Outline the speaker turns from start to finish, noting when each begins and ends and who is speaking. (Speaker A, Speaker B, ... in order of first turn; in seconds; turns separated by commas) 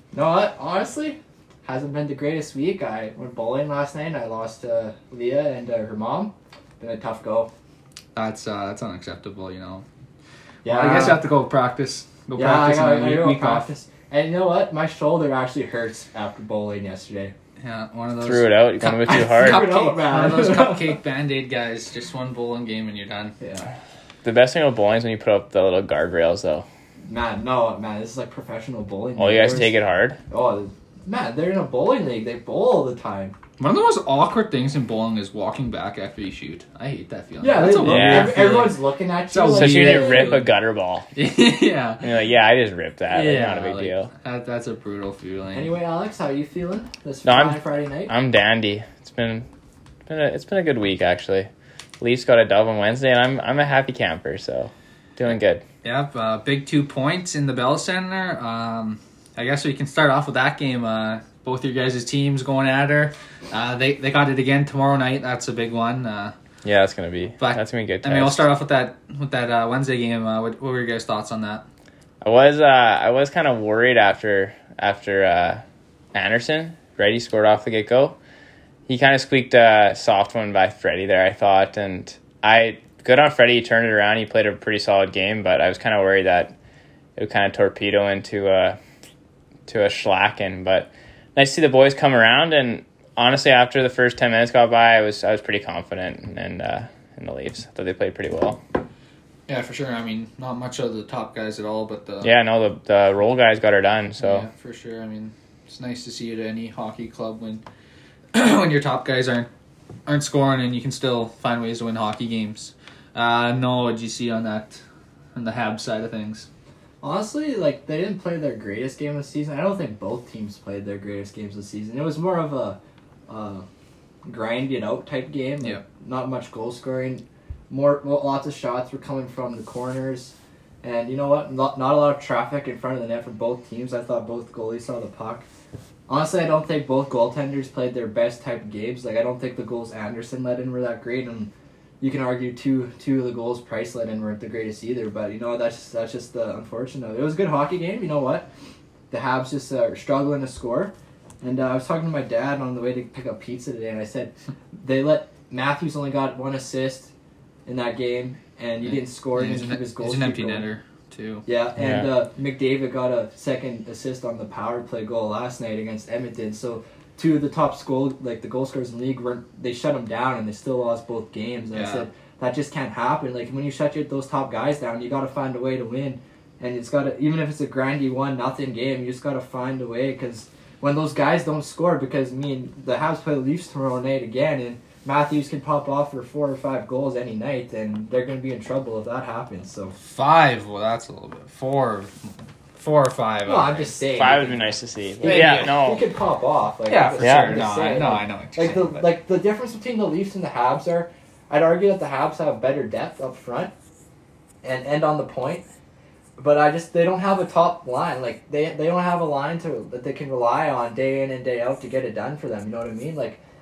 Speaker A: 0.1-7.5, Speaker B: 8.2-9.8, Speaker A: 10.6-11.2, Speaker B: 10.7-13.7, Speaker A: 12.4-17.3, Speaker B: 17.6-23.4, Speaker C: 18.2-19.7, Speaker A: 19.1-21.0, Speaker A: 23.4-23.7, Speaker C: 24.2-26.7, Speaker A: 27.1-29.8, Speaker C: 29.2-30.2, Speaker A: 30.3-33.4, Speaker B: 33.6-40.5, Speaker A: 37.4-40.5, Speaker C: 37.7-38.5, Speaker C: 39.5-41.1, Speaker B: 41.1-42.1, Speaker C: 42.0-44.1, Speaker B: 43.1-45.7, Speaker A: 45.5-48.1, Speaker C: 47.2-49.5, Speaker C: 50.1-51.5, Speaker C: 52.0-55.6, Speaker B: 55.8-66.3, Speaker C: 66.6-68.5, Speaker B: 67.4-71.7, Speaker C: 72.2-78.2, Speaker C: 78.9-86.5, Speaker C: 87.2-88.8, Speaker C: 89.7-98.6, Speaker B: 99.5-102.3, Speaker C: 102.2-104.5, Speaker B: 104.2-107.6, Speaker B: 108.3-109.5, Speaker B: 110.1-114.8, Speaker B: 115.3-116.5, Speaker A: 117.0-123.7, Speaker A: 124.2-135.5, Speaker A: 136.1-148.5, Speaker A: 149.1-157.1, Speaker A: 157.7-160.7, Speaker B: 158.8-161.4, Speaker A: 161.5-189.9, Speaker C: 161.8-162.1, Speaker B: 171.7-172.1, Speaker B: 190.0-193.9, Speaker A: 193.4-203.7, Speaker C: 194.1-196.0, Speaker B: 195.2-195.8, Speaker B: 196.9-199.1, Speaker C: 197.2-197.6, Speaker A: 204.6-205.7, Speaker A: 206.4-213.4